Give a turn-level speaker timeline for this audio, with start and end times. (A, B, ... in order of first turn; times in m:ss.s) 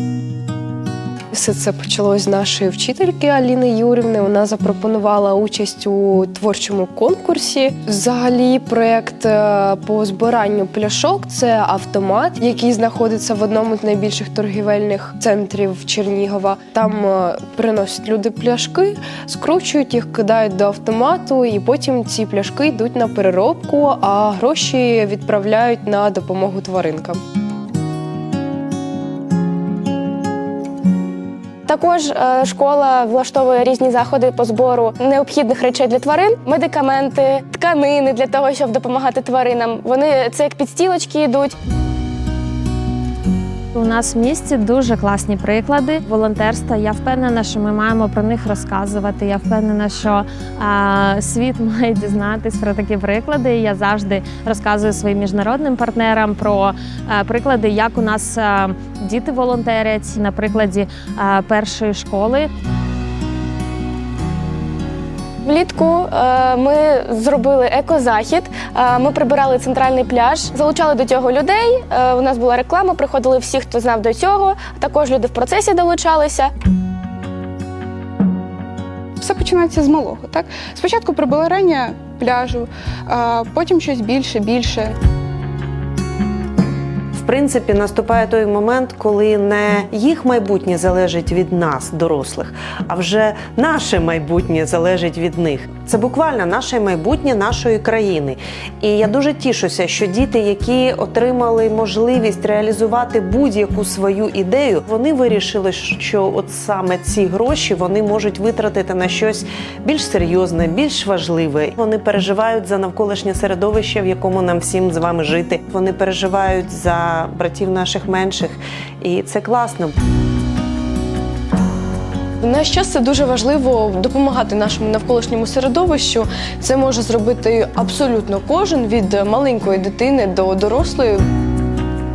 0:01.3-0:27.2 A
0:31.7-0:41.5 B
0:43.7-1:02.5 C
1:05.4-1:16.5 B
1:19.2-1:24.9 D
1:27.1-1:59.9 E
2:02.4-2:11.2 A